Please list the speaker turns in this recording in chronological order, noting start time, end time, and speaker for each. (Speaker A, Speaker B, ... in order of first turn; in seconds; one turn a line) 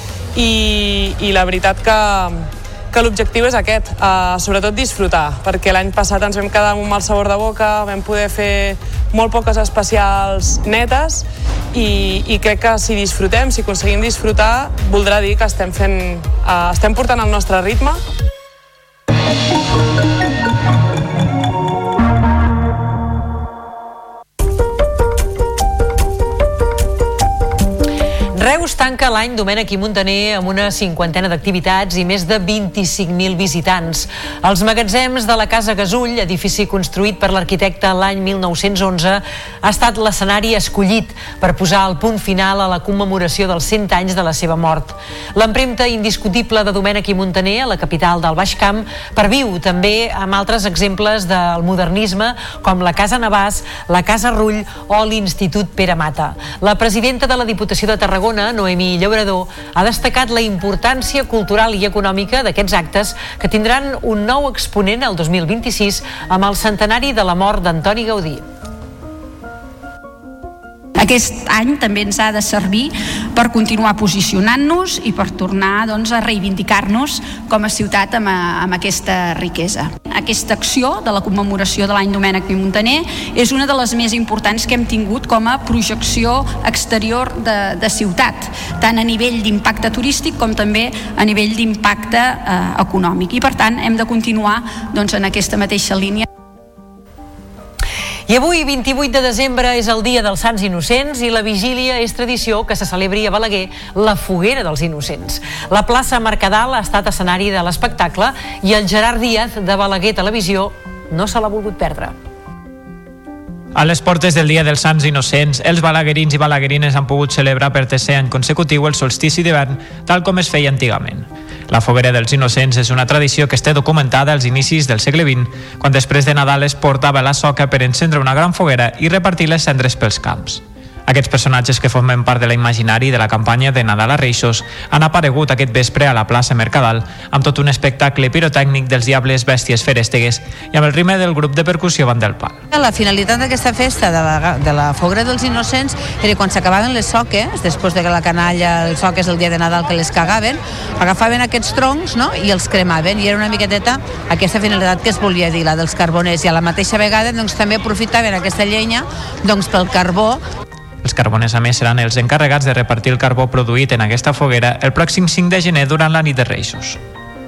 Speaker A: 0.3-18.0
Speaker B: 28.3-68.4
Speaker C: 71.0-96.2
Speaker B: 98.3-112.1
Speaker D: 113.7-142.6
Speaker E: 142.7-160.4
Speaker D: 161.0-167.0